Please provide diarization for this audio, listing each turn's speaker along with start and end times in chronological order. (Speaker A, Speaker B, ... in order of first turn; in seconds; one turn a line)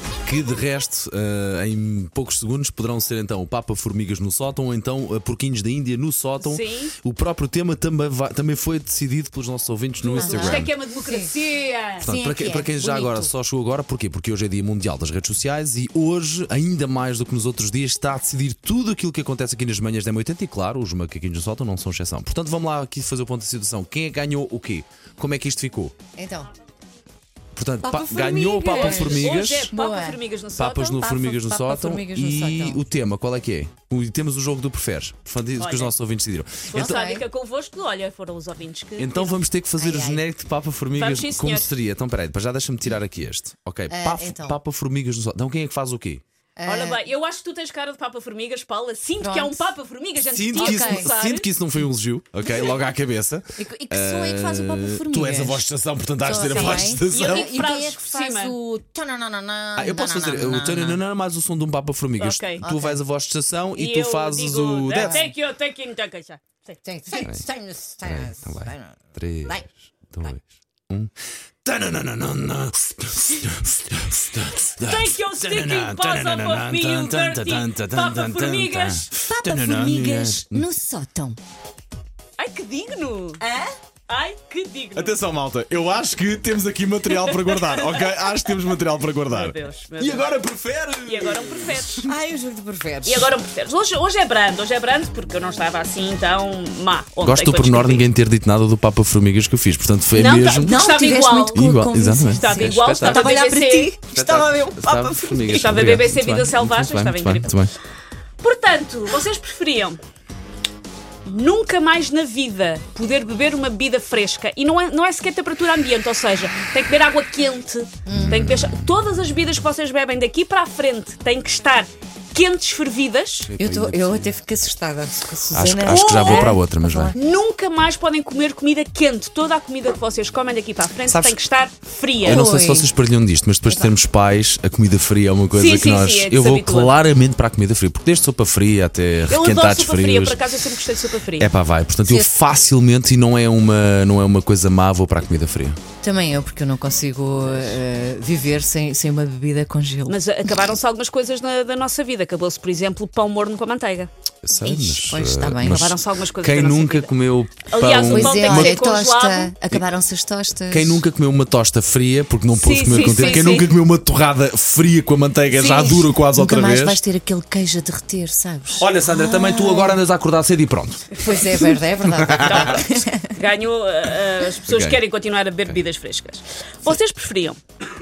Speaker A: 0.3-10.7
Speaker B: 6.4-6.9
Speaker B: 10.0-12.1
Speaker C: 10.2-11.3
Speaker C: 12.0-13.3
Speaker A: 12.0-25.9
Speaker C: 26.2-26.5
Speaker A: 27.6-29.7
Speaker C: 27.8-30.2
Speaker B: 28.6-31.0
Speaker A: 30.6-37.0
Speaker C: 30.9-32.9
Speaker B: 35.6-35.9
Speaker B: 36.7-39.4
Speaker C: 36.8-37.2
Speaker A: 39.0-46.2
Speaker C: 39.8-40.2
Speaker B: 40.9-41.7
Speaker C: 43.9-44.6
Speaker C: 46.6-47.0
Speaker B: 46.7-51.5
Speaker C: 49.2-49.7
Speaker A: 50.3-57.5
Speaker C: 50.5-51.1
Speaker C: 53.6-55.6
Speaker C: 56.2-61.0
Speaker B: 56.6-58.5
Speaker A: 59.8-65.3
Speaker B: 62.2-62.6
Speaker C: 62.6-63.0
Speaker B: 63.8-66.8
Speaker C: 65.0-65.3
Speaker C: 66.8-69.7
Speaker A: 67.2-67.4
Speaker A: 68.1-71.1
Speaker A: 71.7-80.7
Speaker B: 74.8-79.1
Speaker C: 79.3-81.4
Speaker B: 82.4-83.4
Speaker C: 83.4-83.7
Speaker B: 84.1-85.2
Speaker A: 85.0-92.1
Speaker B: 87.1-88.2
Speaker B: 89.3-90.3
Speaker B: 91.0-92.0
Speaker C: 92.0-93.3
Speaker B: 93.0-98.1
Speaker A: 97.2-101.0
Speaker B: 100.1-101.7
Speaker C: 100.6-105.8
Speaker A: 101.5-103.4
Speaker B: 102.3-104.0
Speaker A: 104.1-107.7
Speaker B: 105.4-107.6
Speaker B: 108.4-110.0
Speaker B: 111.2-123.5
Speaker C: 118.0-118.5
Speaker A: 118.1-118.9
Speaker A: 123.5-124.3
Speaker C: 123.6-127.2
Speaker A: 125.5-127.1
Speaker B: 125.9-126.6
Speaker B: 127.1-132.5
Speaker A: 131.1-131.4
Speaker A: 132.2-140.4
Speaker C: 132.2-132.9
Speaker C: 133.7-133.9
Speaker B: 135.5-136.9
Speaker B: 139.3-141.5
Speaker A: 141.4-145.8
Speaker C: 142.0-142.3
Speaker C: 146.0-150.5
Speaker B: 150.1-154.1
Speaker A: 154.4-158.8
Speaker C: 154.6-155.9
Speaker B: 155.6-159.6
Speaker C: 158.1-161.0
Speaker A: 160.7-167.0
Speaker B: 162.6-163.7
Speaker C: 165.6-170.0
Speaker A: 168.8-172.8
Speaker C: 171.2-173.3
Speaker B: 172.4-177.6
Speaker A: 174.7-175.0